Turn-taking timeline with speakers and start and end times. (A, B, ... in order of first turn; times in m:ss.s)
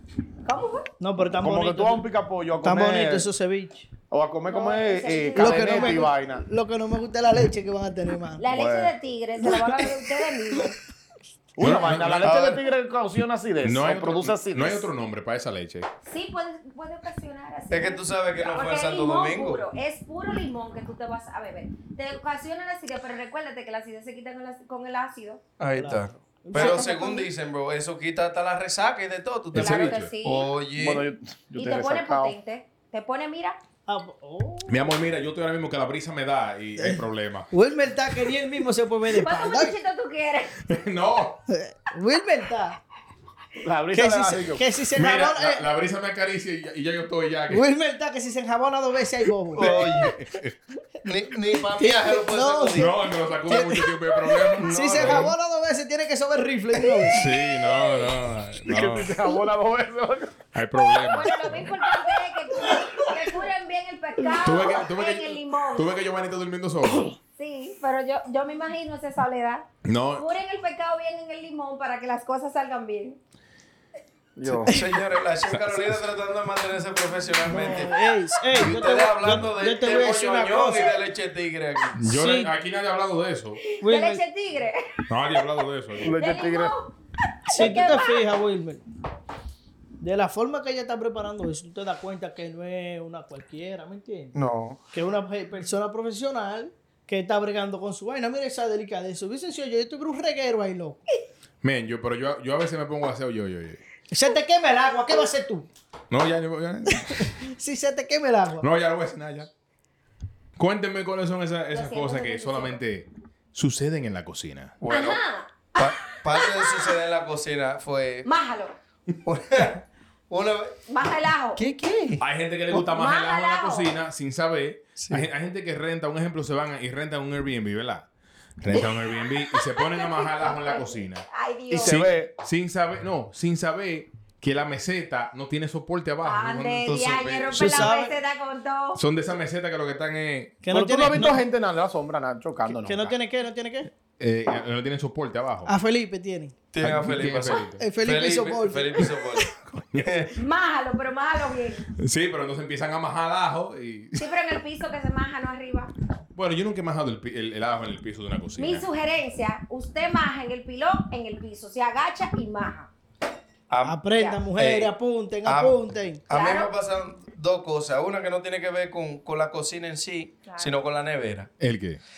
0:00.4-0:00.9 A
0:01.0-0:02.1 B
0:01.4-0:03.3 C
0:02.6-0:03.9 B
0:04.1-0:06.4 C
0:04.5-0:06.1 A
0:05.4-0:08.4 B
0:08.4-0:10.8 A
0:08.5-0:08.9 C
0:09.5-0:10.6 D
0:11.6-0:14.9 C
0:11.6-0:12.4 E
0:12.2-0:12.6 D
0:13.6-0:15.9 E
0:16.0-0:25.4 A
0:17.7-0:19.6 D
0:25.6-0:31.1 D
0:25.8-0:26.9 B
0:26.5-0:27.3 A
0:29.5-0:30.1 E
0:29.6-0:30.5 A
0:30.8-0:32.4 C
0:31.6-0:33.6 A
0:33.9-0:34.8 B
0:34.7-0:37.5 E
0:36.8-0:39.8 B
0:39.1-0:40.6 A
0:40.6-0:41.4 E
0:41.5-0:42.8 B
0:43.6-0:44.7 C
0:43.9-0:45.6 B
0:44.9-0:47.7 E
0:47.5-0:49.7 B
0:49.5-0:50.2 D
0:49.6-0:50.6 E
0:51.0-0:53.0 D
0:51.8-0:57.2 B
0:52.7-0:55.3 E
0:54.6-0:55.3 D
0:57.1-0:59.2 E
0:58.7-1:00.4 C
1:00.5-1:01.6 E
1:01.1-1:05.9 A
1:04.4-1:07.1 E
1:07.4-1:13.2 A
1:09.8-1:10.2 E
1:14.4-1:14.8 C
1:14.7-1:18.0 D
1:15.5-1:16.0 E
1:17.5-1:21.0 B
1:18.5-1:22.0 D
1:22.0-1:23.6 E
1:22.1-1:22.5 B
1:23.6-1:25.1 A
1:23.8-1:24.2 B
1:25.1-1:26.1 E
1:26.0-1:26.7 C
1:26.0-1:26.9 A
1:27.5-1:28.2 A
1:27.5-1:28.8 B
1:30.0-1:34.3 B
1:34.3-1:34.8 D
1:34.9-1:41.0 B
1:41.6-1:43.8 E
1:44.1-1:45.7 B
1:46.1-1:47.3 E
1:46.9-1:48.7 B
1:48.6-1:49.5 E
1:50.6-1:54.8 E
1:51.7-1:52.8 A
1:54.8-1:55.2 D
1:54.9-1:56.9 A
1:55.8-1:58.3 D
1:58.2-1:58.8 A
1:59.2-2:00.8 D
2:00.9-2:01.6 A
2:01.6-2:02.2 D
2:02.2-2:08.1 E
2:02.7-2:03.9 A
2:05.0-2:05.3 D
2:08.6-2:11.2 E
2:08.7-2:12.1 A
2:11.7-2:12.3 C
2:11.8-2:17.4 E
2:16.2-2:19.0 A
2:16.9-2:17.8 D
2:17.5-2:18.2 B
2:19.0-2:20.6 E
2:20.6-2:21.4 B
2:20.7-2:23.1 C
2:22.7-2:23.9 B
2:24.2-2:25.7 E
2:25.7-2:26.6 B
2:26.7-2:30.3 D
2:26.8-2:27.8 E
2:27.8-2:29.2 B
2:29.7-2:30.1 E
2:30.3-2:31.9 A
2:32.0-2:34.3 E
2:34.2-2:35.9 A
2:36.3-2:38.9 E
2:38.6-2:42.9 A
2:43.7-2:51.5 D
2:43.8-2:46.2 B
2:44.1-2:44.4 A
2:46.3-2:46.7 A
2:50.5-2:50.8 A
2:51.6-2:52.0 E